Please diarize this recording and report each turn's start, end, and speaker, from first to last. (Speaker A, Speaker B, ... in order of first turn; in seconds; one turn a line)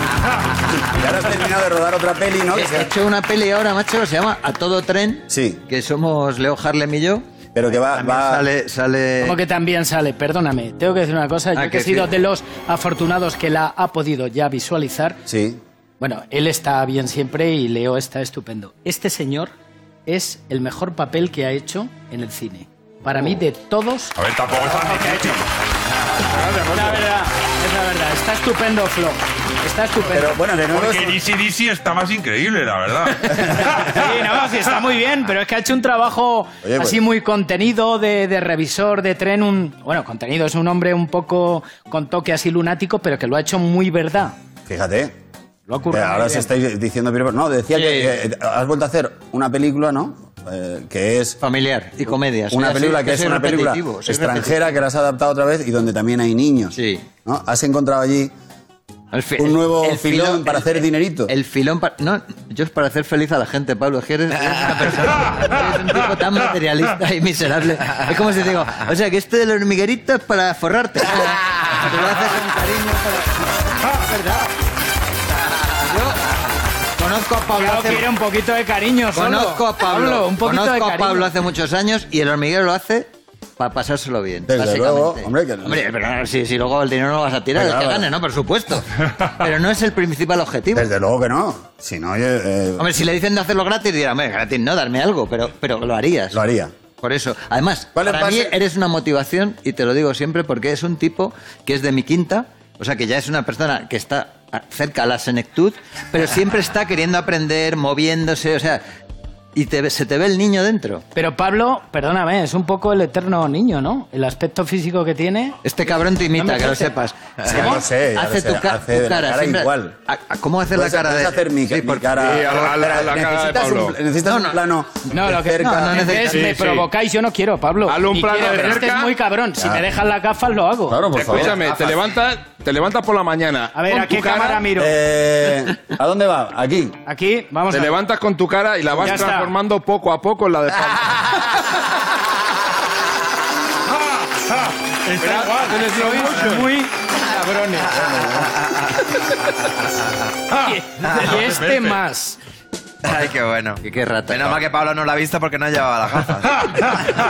Speaker A: 0.8-2.9
Speaker B: 2.5-9.4
Speaker A: 5.3-5.6
Speaker A: 7.5-8.4
Speaker C: 9.2-15.2
Speaker B: 11.5-12.1
Speaker A: 15.3-15.6
Speaker C: 16.0-19.5
Speaker C: 20.1-25.4
Speaker D: 24.2-25.5
Speaker E: 26.2-27.1
Speaker C: 26.7-30.4
Speaker A: 30.1-31.2
Speaker D: 30.7-33.6
Speaker C: 33.3-44.3
Speaker A: 36.6-37.0
Speaker A: 44.7-45.1
Speaker C: 45.7-46.5
Speaker A: 45.9-51.4
Speaker B: 47.7-48.1
Speaker B: 51.4-54.6
Speaker A: 52.5-58.3
Speaker B: 56.7-57.0
Speaker B: 59.1-74.1
Speaker A: 59.4-61.3
Speaker C: 74.2-74.5
Speaker B: 75.8-76.4
Speaker B: 77.0-78.1
Speaker C: 77.5-81.3
Speaker B: 79.1-90.9
Speaker A: 84.5-85.9
Speaker A: 87.5-88.1
Speaker A: 90.7-92.9
Speaker B: 92.8-96.4
Speaker A: 96.3-96.7
Speaker B: 97.0-108.8
Speaker A: 97.9-98.6
Speaker B: 109.5-111.0
Speaker C: 111.1-115.6
Speaker B: 115.6-122.3
Speaker C: 116.3-116.9
Speaker A: 117.5-120.0
Speaker C: 117.5-117.8
Speaker A: 120.7-126.1
Speaker E: 122.2-123.9
Speaker B: 124.2-124.6
Speaker C: 125.1-131.0
Speaker B: 125.4-126.6
Speaker E: 126.3-126.9
Speaker E: 127.8-129.1
Speaker A: 129.6-129.8
Speaker A: 130.9-131.8
Speaker E: 131.1-134.7
Speaker C: 133.7-135.0
Speaker A: 134.8-137.0
Speaker C: 137.0-138.0
Speaker E: 137.7-141.4
Speaker C: 139.0-139.5
Speaker D: 145.1-146.3
Speaker E: 145.2-146.7
Speaker C: 145.2-147.9
Speaker A: 147.9-148.6
Speaker C: 150.5-152.4
Speaker D: 151.4-151.9
Speaker F: 153.0-156.9
Speaker B: 153.8-154.6